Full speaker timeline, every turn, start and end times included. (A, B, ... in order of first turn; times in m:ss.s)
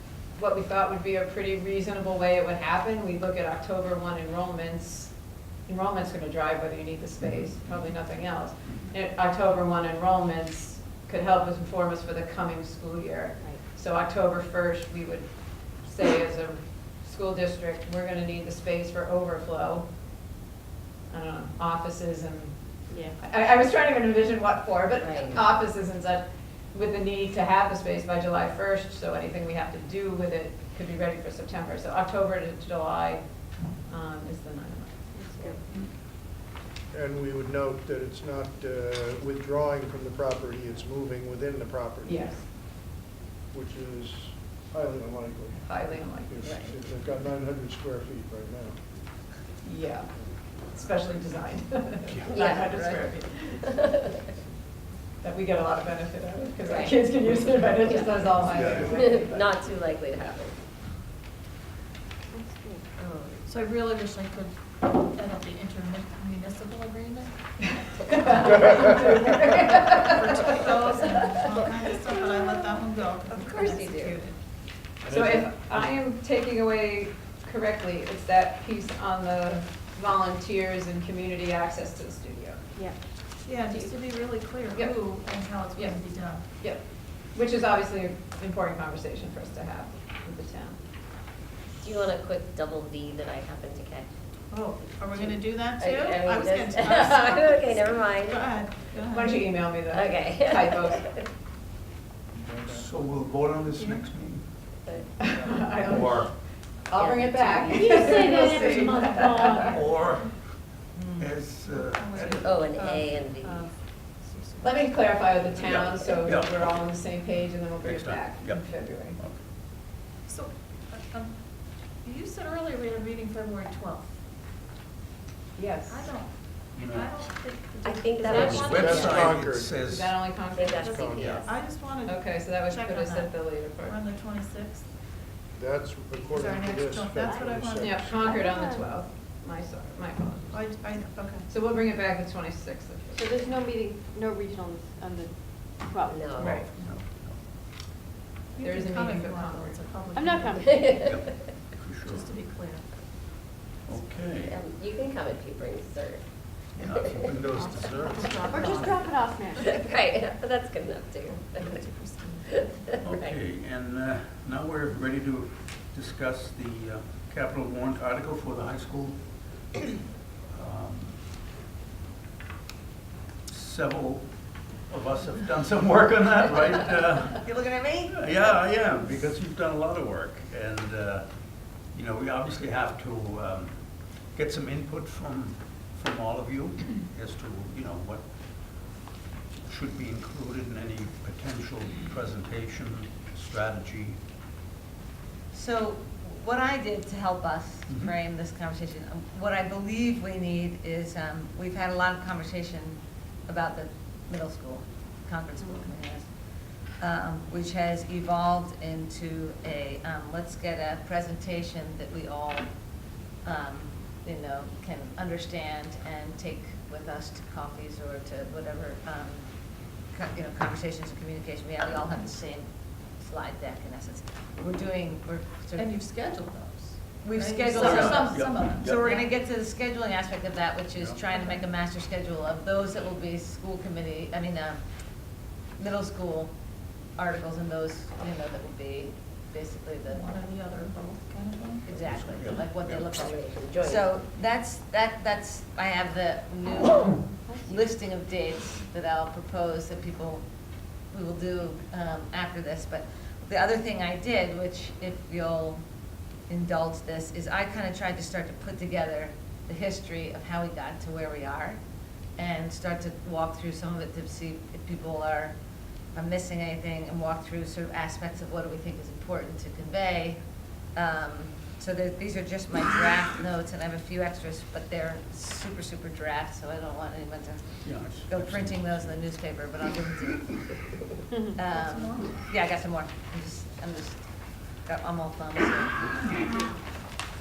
0:00.4-0:05.1 A
0:05.7-0:15.3 A
0:07.2-0:07.9 B
0:15.8-0:19.9 A
0:21.1-0:22.6 A
0:23.2-0:35.6 A
0:25.0-0:25.5 C
0:36.9-0:42.5 D
0:42.0-0:42.5 A
0:43.5-0:48.8 D
0:45.7-0:46.5 A
0:46.4-0:46.8 C
0:49.6-0:50.1 A
0:50.7-0:53.8 A
0:52.3-0:52.7 C
0:52.3-0:53.1 E
0:53.6-0:54.0 C
0:55.2-0:59.5 A
0:56.6-0:57.0 C
0:57.8-1:00.6 C
0:58.4-0:59.2 D
0:58.5-0:59.0 B
1:02.4-1:03.5 C
1:03.5-1:14.4 F
1:07.9-1:11.5 A
1:13.3-1:13.9 E
1:15.0-1:15.9 B
1:15.1-1:22.6 A
1:23.4-1:26.4 F
1:25.8-1:26.0 A
1:26.5-1:30.8 A
1:31.8-1:34.1 C
1:34.5-1:39.5 F
1:35.0-1:38.7 C
1:39.1-1:41.1 A
1:39.9-1:41.3 C
1:42.3-1:42.9 D
1:42.7-1:44.5 B
1:43.8-1:44.0 F
1:44.7-1:45.5 C
1:45.2-1:46.3 A
1:45.9-1:46.3 B
1:46.9-1:49.8 A
1:46.9-1:48.9 C
1:47.7-1:50.0 F
1:49.6-1:50.5 B
1:50.9-1:51.3 E
1:51.2-1:52.7 B
1:51.9-1:53.6 F
1:52.4-1:53.7 C
1:54.3-1:54.8 F
1:54.6-1:59.2 A
1:55.5-1:57.0 B
1:57.8-1:59.4 B
2:00.3-2:04.1 F
2:05.6-2:06.1 A
2:05.9-2:09.2 F
2:06.7-2:07.2 B
2:07.8-2:09.4 C
2:08.3-2:10.6 B
2:08.6-2:09.7 D
2:09.9-2:11.2 A
2:10.5-2:11.5 C
2:10.7-2:14.9 F
2:10.8-2:11.3 D
2:11.2-2:11.4 B
2:12.0-2:14.0 A
2:15.5-2:18.1 D
2:16.3-2:18.8 F
2:17.8-2:20.9 A
2:20.5-2:21.5 F
2:21.5-2:23.5 A
2:23.2-2:26.2 G
2:26.1-2:26.7 C
2:26.4-2:26.6 A
2:26.5-2:27.4 B
2:28.6-2:30.7 F
2:28.6-2:29.8 A
2:30.2-2:30.6 G
2:30.6-2:31.5 C
2:31.0-2:32.3 B
2:32.1-2:32.9 F
2:33.9-2:34.6 B
2:34.4-2:36.2 C
2:36.8-2:39.0 B
2:36.9-2:37.2 C
2:37.5-2:39.1 F
2:38.5-2:39.5 G
2:39.6-2:41.9 C
2:41.5-2:42.8 F
2:42.4-2:43.4 C
2:43.0-2:49.2 B
2:50.5-2:51.2 B
2:53.5-2:57.4 B
2:57.4-2:58.5 E
2:58.1-3:01.2 B
3:01.9-3:08.8 B
3:09.7-3:14.2 B
3:15.5-3:26.3 E
3:17.9-3:18.2 B
3:26.9-3:32.8 E
3:33.3-3:39.4 E
3:40.1-3:46.0 E
3:45.8-3:49.3 F
3:47.2-3:54.8 E
3:47.7-3:49.0 B
3:51.0-3:51.2 B
3:51.4-3:51.6 F
3:55.8-3:56.5 E
3:57.1-4:00.4 E
4:00.1-4:01.9 F
4:01.9-4:10.4 E
4:01.9-4:03.1 B
4:03.2-4:04.1 C
4:11.1-4:15.8 E
4:16.5-4:21.8 E
4:22.4-4:25.6 E
4:26.1-4:30.4 E
4:30.9-4:41.0 E
4:37.8-4:39.2 B
4:41.5-4:44.2 E
4:41.7-4:42.4 F
4:44.8-4:46.3 E